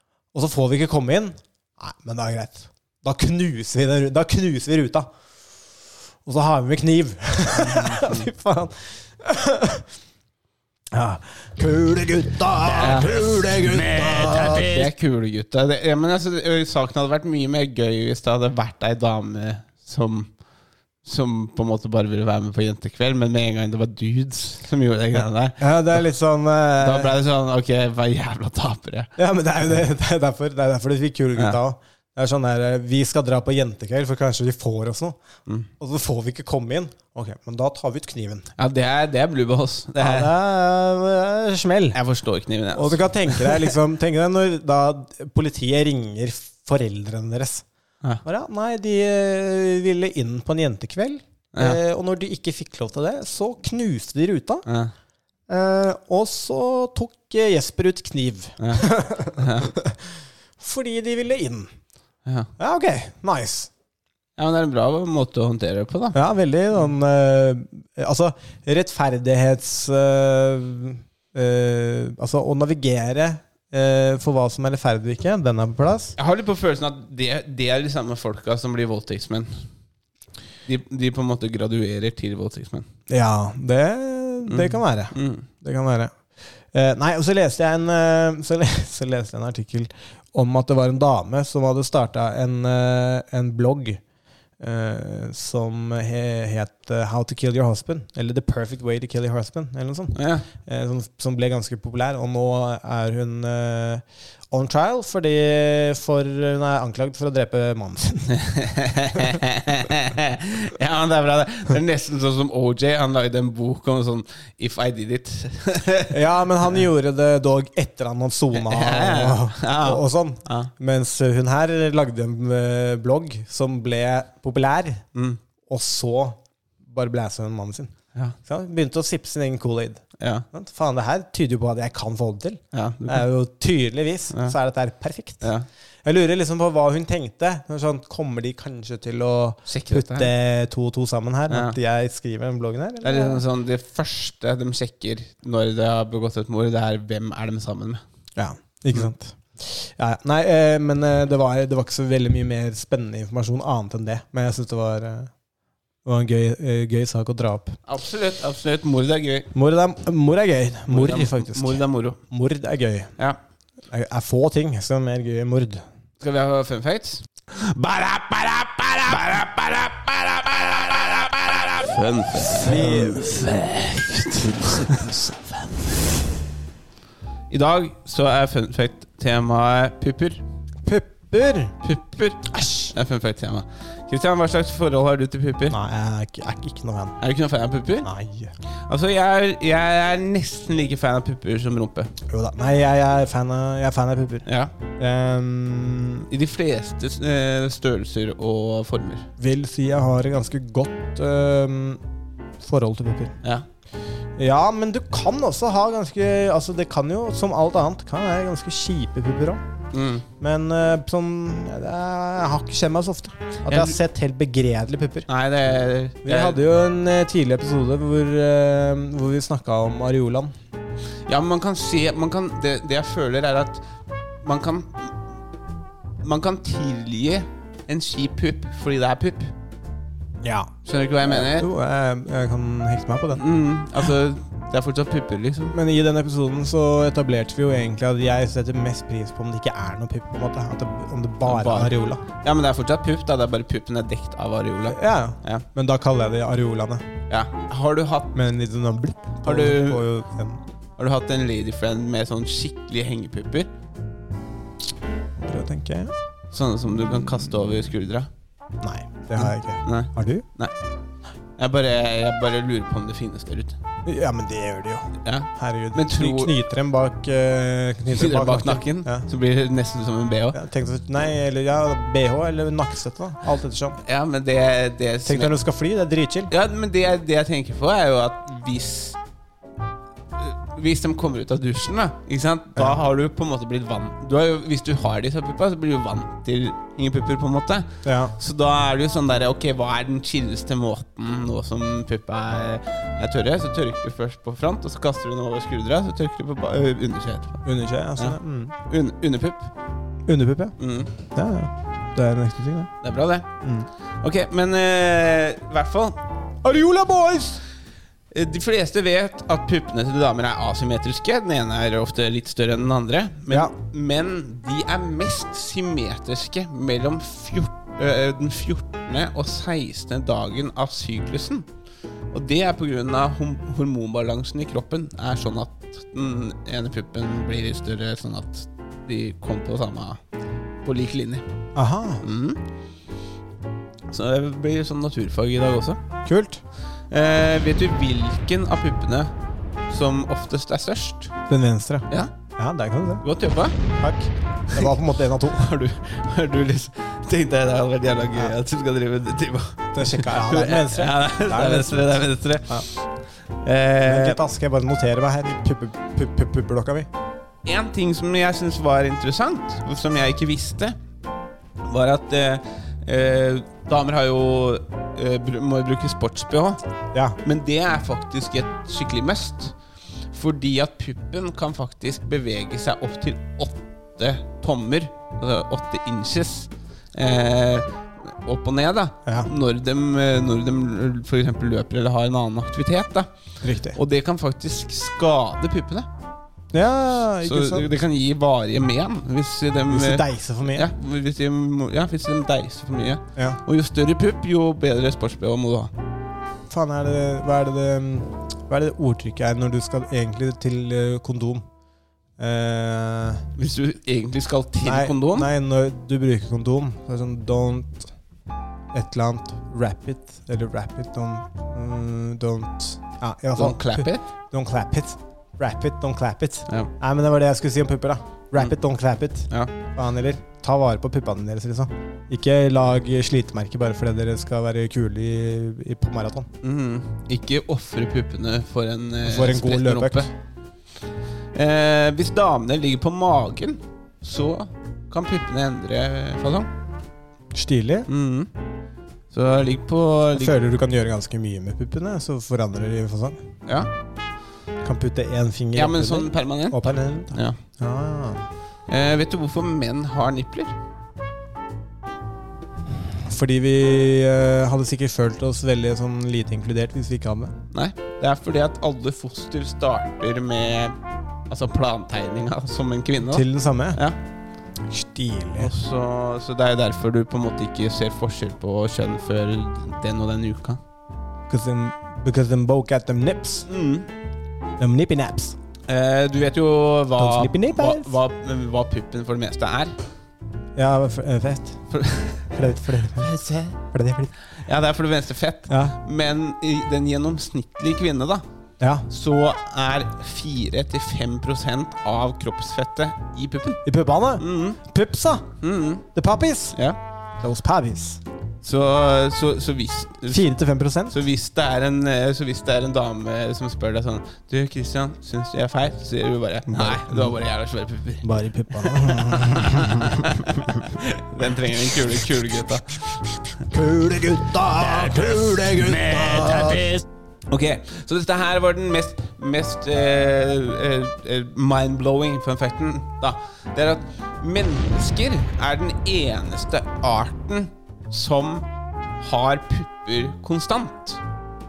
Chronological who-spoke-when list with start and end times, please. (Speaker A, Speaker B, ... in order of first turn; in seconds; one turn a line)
Speaker A: 0.3-5.1
Speaker A: 6.2-9.8
Speaker B: 7.5-8.3
Speaker A: 10.9-14.9
Speaker B: 12.8-13.3
Speaker B: 13.9-20.3
Speaker B: 21.0-26.0
Speaker A: 25.1-27.1
Speaker B: 26.8-29.1
Speaker A: 29.2-35.2
Speaker A: 35.8-38.5
Speaker B: 38.6-40.3
Speaker A: 40.0-42.0
Speaker B: 41.9-43.7
Speaker A: 42.7-47.6
Speaker A: 48.2-54.6
Speaker B: 51.5-51.8
Speaker B: 54.6-54.9
Speaker A: 55.5-60.0
Speaker B: 58.6-59.7
Speaker A: 60.6-61.7
Speaker B: 62.2-62.5
Speaker A: 62.6-63.7
Speaker B: 64.4-66.2
Speaker A: 66.1-76.1
Speaker B: 76.2-79.6
Speaker B: 80.7-82.9
Speaker A: 83.1-86.1
Speaker B: 84.5-85.5
Speaker A: 86.7-94.0
Speaker A: 94.6-108.3
Speaker B: 100.1-100.5
Speaker B: 108.3-116.2
Speaker A: 116.1-125.0
Speaker B: 118.5-120.7
Speaker B: 125.1-125.4
Speaker A: 125.7-127.9
Speaker A: 128.4-135.5
Speaker B: 130.2-130.4
Speaker B: 132.7-133.3
Speaker A: 136.0-143.4
Speaker B: 139.7-140.3
Speaker B: 141.5-141.8
Speaker B: 143.0-148.0
Speaker A: 148.3-155.3
Speaker A: 156.0-157.8
Speaker B: 157.9-159.5
Speaker A: 159.5-163.1
Speaker B: 160.9-162.2
Speaker A: 163.9-165.8
Speaker B: 166.2-175.5
Speaker A: 172.6-173.3
Speaker B: 177.5-180.4
Speaker A: 180.8-181.7
Speaker B: 181.8-185.8
Speaker A: 182.5-182.9
Speaker A: 185.7-187.2
Speaker B: 187.2-188.1
Speaker A: 188.0-188.5
Speaker B: 188.9-192.1
Speaker A: 192.3-194.4
Speaker B: 194.4-194.7
Speaker A: 195.0-196.2
Speaker B: 196.3-199.3
Speaker A: 199.4-202.0
Speaker A: 202.6-203.3
Speaker A: 204.4-209.6
Speaker B: 209.9-210.2
Speaker A: 210.4-215.3
Speaker B: 213.7-214.0
Speaker B: 215.3-216.6
Speaker A: 216.2-220.5
Speaker B: 221.3-223.8
Speaker B: 224.4-225.1
Speaker B: 226.2-229.5
Speaker A: 230.4-233.4
Speaker B: 230.8-231.7
Speaker B: 233.3-235.8
Speaker A: 235.7-242.2
Speaker B: 241.4-245.6
Speaker A: 244.9-247.1
Speaker B: 247.3-248.3
Speaker A: 248.3-250.6
Speaker B: 249.4-250.1
Speaker B: 251.0-253.7
Speaker A: 255.4-256.1
Speaker B: 256.5-258.3
Speaker A: 258.8-260.4
Speaker B: 259.4-260.7
Speaker B: 261.6-263.8
Speaker A: 264.1-269.2
Speaker B: 265.2-266.5
Speaker B: 268.1-270.6
Speaker A: 270.5-274.0
Speaker B: 274.0-275.5
Speaker A: 275.2-276.5
Speaker B: 276.5-279.2
Speaker B: 280.4-297.6
Speaker A: 288.0-288.3
Speaker A: 297.6-298.7
Speaker B: 298.2-299.7
Speaker A: 300.2-300.7
Speaker B: 300.8-301.1
Speaker A: 301.3-302.9
Speaker B: 303.0-303.5
Speaker A: 303.6-303.9
Speaker B: 304.2-306.2
Speaker A: 306.6-307.6
Speaker B: 308.3-321.7
Speaker B: 322.3-330.2
Speaker B: 330.8-331.4
Speaker A: 331.7-332.2
Speaker B: 332.2-332.6
Speaker B: 334.1-336.0
Speaker A: 336.2-336.6
Speaker B: 337.1-339.3
Speaker B: 339.9-341.3
Speaker A: 341.5-343.2
Speaker B: 343.2-343.8
Speaker A: 343.9-345.7
Speaker B: 345.5-353.1
Speaker A: 349.9-352.9
Speaker B: 353.6-354.4
Speaker A: 354.0-357.1
Speaker B: 357.6-360.9
Speaker B: 361.9-366.8
Speaker B: 367.4-369.7
Speaker B: 370.3-383.3
Speaker A: 383.6-384.0
Speaker B: 383.9-386.1
Speaker A: 386.7-387.9
Speaker B: 387.4-395.9
Speaker A: 389.9-390.9
Speaker A: 396.7-401.6
Speaker A: 402.4-403.4
Speaker B: 403.6-405.5
Speaker A: 404.8-408.1
Speaker A: 408.9-426.5
Speaker B: 413.5-414.2
Speaker B: 426.6-430.3
Speaker A: 429.2-430.3
Speaker B: 431.5-436.7
Speaker A: 437.5-438.1
Speaker B: 438.1-438.5
Speaker B: 439.3-440.6
Speaker A: 440.4-443.4
Speaker A: 444.8-448.4
Speaker B: 445.7-446.8
Speaker B: 447.3-447.6
Speaker B: 448.9-450.7
Speaker A: 453.2-457.5
Speaker B: 457.7-461.0
Speaker B: 461.5-464.2
Speaker A: 463.3-464.0
Speaker A: 464.9-465.7
Speaker B: 465.6-470.8
Speaker A: 471.5-473.7
Speaker B: 473.7-474.1
Speaker A: 474.8-475.6
Speaker B: 475.9-479.9
Speaker A: 477.2-478.1
Speaker A: 480.8-481.8
Speaker B: 481.9-482.5
Speaker A: 482.5-483.3
Speaker B: 483.1-483.8
Speaker A: 483.9-484.3
Speaker B: 484.6-488.4
Speaker A: 485.7-486.0
Speaker A: 488.8-489.1
Speaker B: 489.1-493.8
Speaker A: 493.8-495.5
Speaker B: 494.4-494.8
Speaker B: 495.6-496.0
Speaker A: 496.1-496.8
Speaker A: 497.4-498.2
Speaker B: 498.6-500.5
Speaker A: 500.3-501.1
Speaker B: 501.1-513.0
Speaker A: 506.7-507.4
Speaker A: 508.2-510.2
Speaker A: 513.7-517.0
Speaker B: 517.5-528.6
Speaker B: 529.2-531.2